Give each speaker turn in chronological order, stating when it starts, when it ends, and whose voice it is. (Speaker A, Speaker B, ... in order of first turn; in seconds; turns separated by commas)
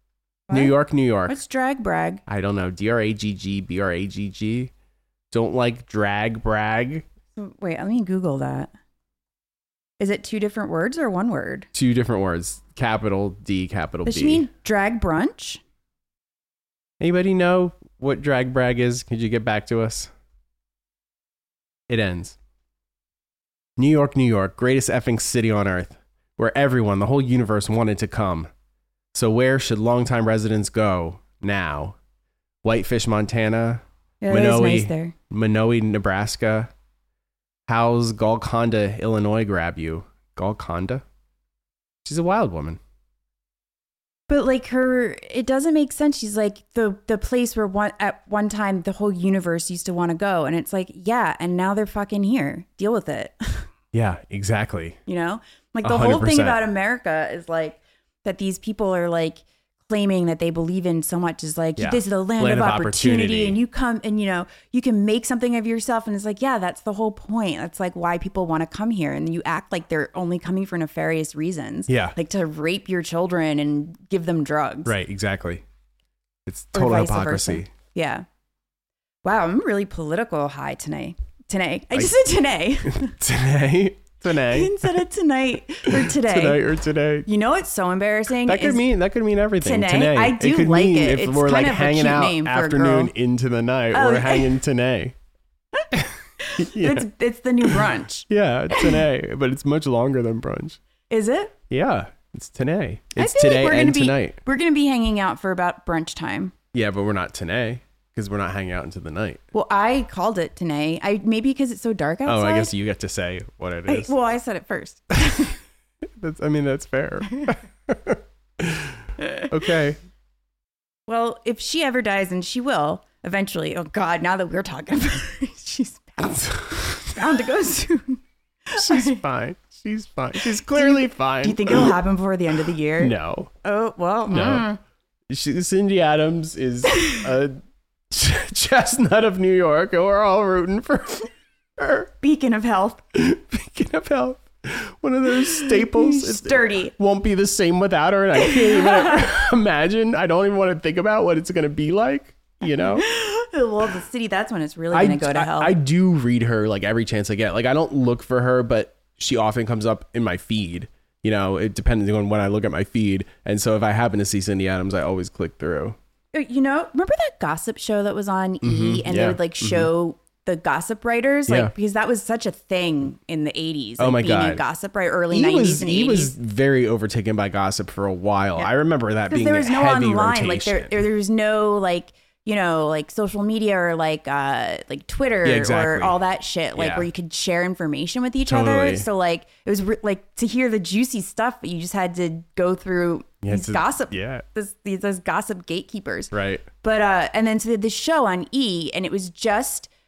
Speaker A: 0.5-0.7, Speaker B: 0.5-1.4, Speaker A: 1.2-2.2, Speaker B: 2.3-4.7, Speaker B: 5.3-7.0, Speaker A: 7.3-8.7, Speaker A: 10.0-11.7, Speaker B: 11.7-14.4, Speaker A: 14.0-15.6, Speaker B: 17.0-20.1, Speaker B: 21.9-22.4, Speaker B: 23.8-28.5, Speaker B: 29.1-31.9, Speaker B: 32.6-36.7, Speaker A: 34.2-35.1, Speaker B: 37.7-41.0, Speaker B: 42.0-42.8, Speaker A: 44.3-53.6, Speaker B: 53.9-55.0, Speaker A: 55.1-74.9, Speaker B: 55.8-56.6, Speaker B: 61.8-63.6, Speaker B: 71.9-72.2, Speaker B: 74.8-75.6, Speaker B: 76.5-77.7, Speaker A: 76.7-78.2, Speaker A: 79.2-83.1, Speaker B: 82.9-85.0, Speaker A: 84.5-86.7, Speaker B: 85.8-87.3, Speaker A: 87.2-88.8, Speaker B: 88.4-95.1, Speaker A: 89.6-93.1, Speaker A: 93.9-94.5, Speaker B: 95.9-97.1, Speaker A: 96.4-99.0, Speaker B: 97.6-100.8, Speaker A: 101.1-101.5, Speaker B: 101.7-104.4, Speaker A: 103.2-106.5, Speaker B: 106.7-109.4, Speaker A: 109.5-112.7, Speaker B: 112.2-114.1, Speaker A: 113.9-115.5, Speaker B: 116.0-120.0, Speaker A: 121.1-129.2, Speaker B: 126.4-127.1, Speaker B: 128.8-131.9, Speaker A: 130.4-134.8, Speaker B: 133.0-133.5, Speaker B: 134.3-134.7, Speaker B: 135.3-137.6, Speaker B: 138.1-142.1, Speaker A: 142.2-143.0, Speaker B: 143.1-153.1, Speaker A: 145.4-146.9, Speaker A: 148.4-149.2, Speaker A: 152.9-155.7, Speaker B: 154.9-165.9, Speaker A: 166.3-176.3, Speaker B: 168.6-169.9, Speaker B: 171.5-171.7, Speaker B: 174.0-174.6, Speaker B: 175.3-181.0, Speaker A: 179.3-199.9, Speaker B: 185.4-186.2, Speaker B: 186.7-187.1, Speaker B: 188.4-189.1, Speaker B: 193.4-194.4, Speaker B: 196.3-196.7